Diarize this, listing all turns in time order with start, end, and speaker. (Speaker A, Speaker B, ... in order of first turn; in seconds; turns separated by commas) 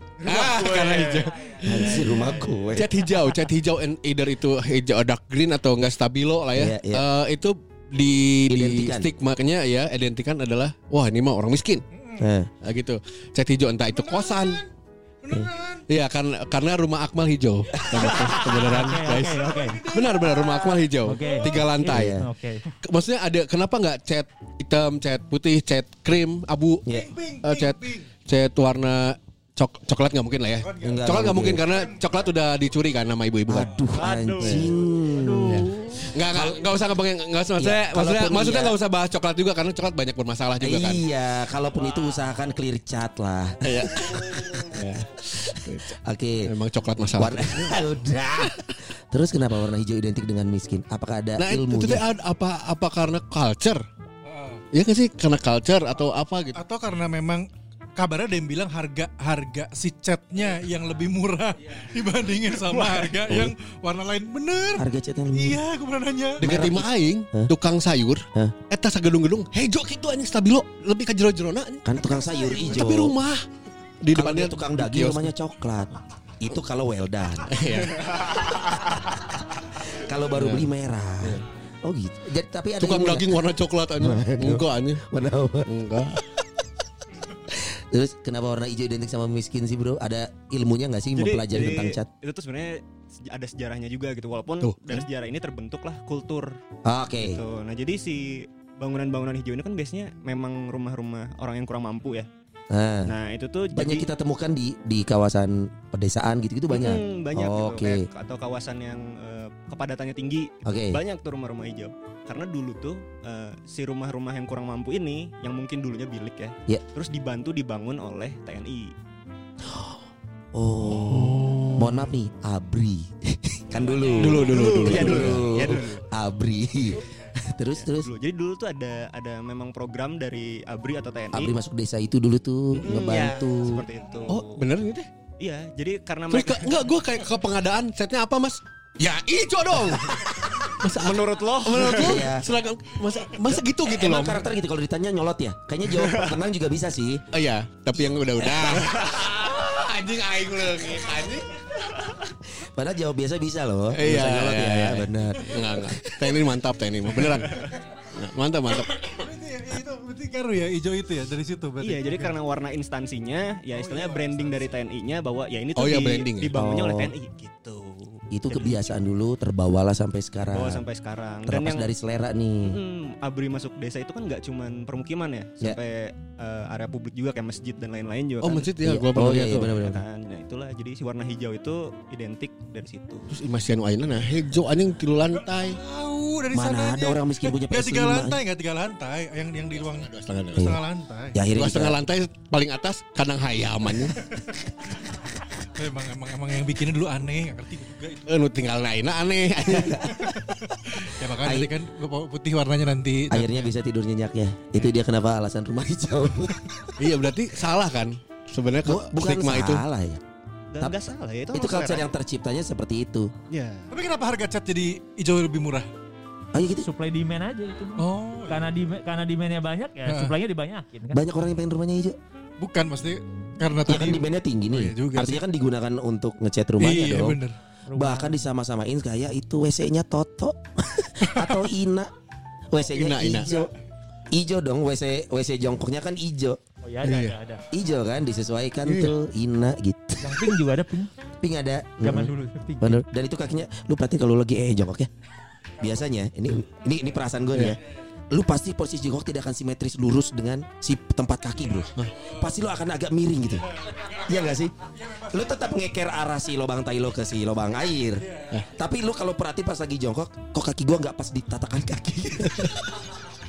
Speaker A: 0.2-2.1, Speaker B: 0.3-1.3, Speaker C: 1.6-2.9, Speaker A: 2.7-11.8, Speaker C: 6.5-7.0, Speaker C: 8.5-9.1, Speaker D: 11.9-12.2, Speaker C: 12.2-12.5, Speaker A: 12.6-14.6, Speaker D: 13.9-14.7, Speaker D: 15.2-15.8, Speaker A: 15.9-22.2, Speaker C: 17.8-18.6, Speaker D: 17.8-21.6, Speaker E: 18.7-19.8, Speaker E: 21.0-22.7, Speaker C: 21.9-22.3, Speaker A: 22.8-26.9, Speaker D: 26.9-28.1, Speaker A: 27.4-33.7, Speaker D: 30.6-31.9, Speaker C: 30.8-31.6, Speaker C: 33.5-36.7, Speaker B: 33.9-35.2, Speaker A: 34.4-34.7, Speaker A: 35.5-41.0, Speaker C: 37.6-38.7, Speaker C: 40.6-44.8, Speaker A: 43.6-45.9, Speaker C: 45.5-46.5, Speaker A: 46.4-47.8, Speaker C: 47.2-52.0, Speaker A: 51.4-53.8, Speaker D: 54.2-54.6, Speaker A: 54.7-56.6, Speaker D: 56.5-66.5, Speaker C: 64.8-65.6, Speaker C: 66.4-67.5, Speaker A: 66.4-71.8, Speaker C: 71.8-73.1, Speaker A: 72.5-73.4, Speaker A: 74.0-75.3, Speaker C: 74.1-79.3, Speaker A: 77.5-78.3, Speaker C: 79.8-83.4, Speaker A: 80.3-80.7, Speaker A: 82.8-85.0, Speaker C: 84.0-85.7, Speaker A: 85.7-86.2, Speaker C: 87.5-92.1, Speaker B: 91.1-96.6, Speaker A: 94.6-95.1, Speaker C: 96.8-97.4, Speaker B: 97.2-102.3, Speaker C: 102.7-103.1, Speaker B: 103.0-104.1, Speaker C: 103.7-108.0, Speaker B: 106.7-118.9, Speaker C: 110.6-111.0, Speaker C: 119.6-120.0, Speaker C: 120.5-128.1, Speaker A: 120.8-122.0, Speaker B: 123.9-126.0, Speaker A: 124.2-125.7, Speaker B: 127.7-131.5, Speaker C: 131.3-133.8, Speaker B: 132.8-134.6, Speaker A: 134.3-135.1, Speaker B: 135.4-136.7, Speaker A: 136.3-144.4, Speaker B: 140.9-142.2, Speaker C: 141.9-142.5, Speaker C: 143.8-147.2, Speaker B: 146.0-146.4, Speaker A: 147.3-151.5, Speaker C: 148.4-148.9, Speaker C: 152.6-156.2, Speaker A: 153.9-158.9, Speaker D: 158.9-162.3, Speaker B: 161.8-168.9, Speaker D: 163.7-164.7, Speaker A: 165.8-166.5, Speaker C: 166.5-167.1, Speaker C: 168.3-170.8, Speaker B: 170.5-171.9, Speaker C: 171.4-172.8, Speaker B: 172.6-178.8, Speaker A: 178.4-179.7, Speaker C: 178.8-180.0, Speaker B: 179.5-183.3, Speaker A: 183.3-185.8, Speaker D: 185.7-191.3, Speaker C: 186.5-188.4, Speaker A: 189.8-190.8, Speaker C: 190.6-190.8, Speaker C: 191.3-192.0, Speaker A: 191.5-194.2, Speaker D: 195.7-198.2, Speaker A: 198.3-200.0, Speaker C: 199.7-200.4, Speaker D: 200.3-203.7, Speaker C: 200.9-201.7, Speaker C: 203.3-206.6, Speaker A: 207.0-209.8, Speaker C: 208.8-210.2, Speaker B: 210.7-212.1, Speaker C: 211.5-213.3, Speaker B: 213.5-213.9, Speaker D: 213.9-215.9, Speaker C: 216.5-216.9, Speaker E: 216.8-221.3, Speaker D: 218.0-218.7, Speaker D: 220.1-220.3, Speaker C: 221.1-222.2, Speaker D: 222.6-225.4, Speaker C: 223.8-227.4, Speaker D: 226.8-227.5, Speaker E: 227.9-228.4, Speaker C: 227.9-232.1, Speaker C: 232.7-233.7, Speaker A: 232.9-233.5, Speaker C: 234.3-236.6, Speaker E: 236.8-237.6, Speaker A: 237.0-237.3, Speaker C: 237.7-240.5, Speaker A: 238.8-239.1, Speaker E: 240.2-241.1, Speaker C: 241.4-245.1, Speaker E: 242.0-243.0, Speaker C: 245.8-247.8, Speaker C: 248.3-253.7, Speaker D: 253.8-255.5, Speaker C: 254.2-254.7, Speaker C: 255.3-262.8, Speaker D: 258.2-258.6, Speaker A: 262.5-262.7